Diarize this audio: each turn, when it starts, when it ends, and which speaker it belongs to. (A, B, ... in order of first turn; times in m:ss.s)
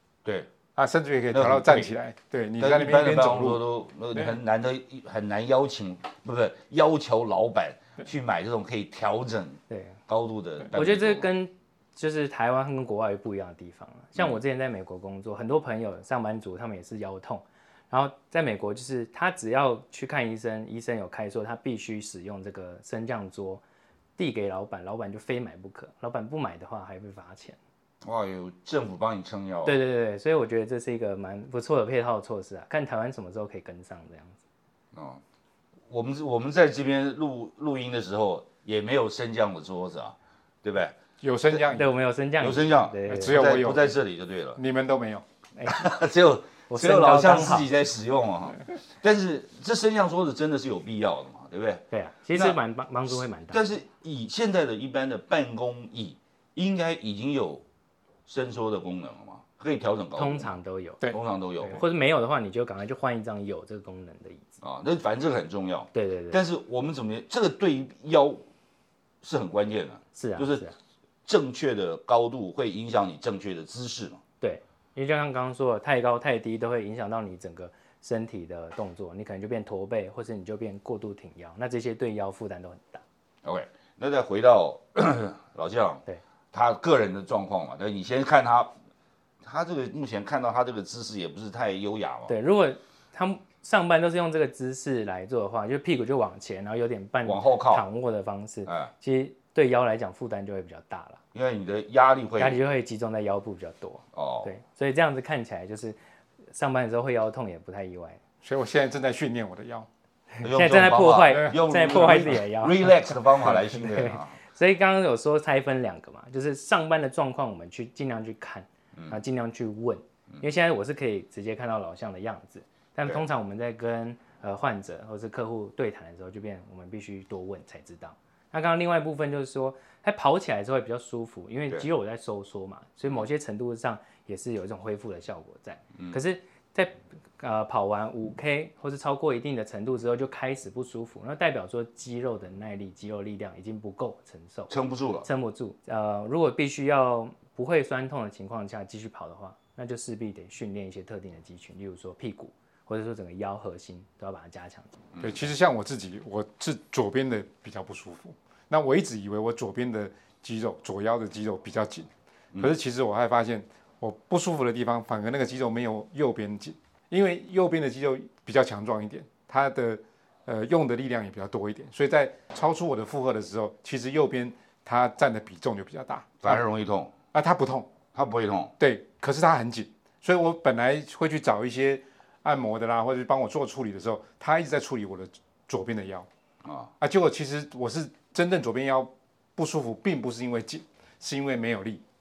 0:00.8-0:03.6 A
0:01.3-0:01.9 B
0:02.6-0:11.3 B
0:09.7-0:10.0 C
0:10.7-0:23.6 C
0:24.2-0:27.6 C
0:28.0-0:29.8 B
0:29.6-0:34.4 C
0:34.9-0:35.2 B
0:35.9-0:40.9 B
0:41.2-0:41.9 A
0:41.5-0:43.4 C
0:42.4-0:44.6 B
0:43.1-0:43.9 A
0:44.6-0:45.2 A
0:45.6-0:45.8 C
0:45.6-0:51.8 B
0:46.7-0:47.7 C
0:51.9-0:53.7 C
0:53.5-0:57.6 B
0:58.3-1:00.6 B
1:00.2-1:01.1 C
1:01.1-1:01.8 B
1:01.6-1:04.5 C
1:04.6-1:08.4 B
1:05.9-1:06.4 C
1:09.2-1:10.6 B
1:10.1-1:10.8 C
1:11.3-1:14.2 B
1:14.4-1:23.0 C
1:23.4-1:26.0 B
1:26.5-1:28.7 B
1:29.4-1:32.4 B
1:32.3-1:41.2 C
1:37.2-1:37.8 B
1:38.7-1:38.9 B
1:41.3-1:42.6 B
1:42.4-1:46.0 C
1:44.2-1:44.5 B
1:46.5-1:48.2 C
1:48.4-1:49.9 A
1:50.4-1:53.0 C
1:50.4-1:54.4 B
1:51.3-1:52.3 A
1:53.7-2:24.7 C
1:59.0-1:59.2 B
2:24.7-2:25.3 B
2:25.2-2:34.9 C
2:35.1-2:35.5 B
2:35.2-2:56.6 A
2:56.4-2:57.1 B
2:57.3-2:57.9 A
2:58.1-2:58.7 B
2:58.8-3:06.3 A
3:06.6-3:06.9 B
3:07.0-3:12.0 A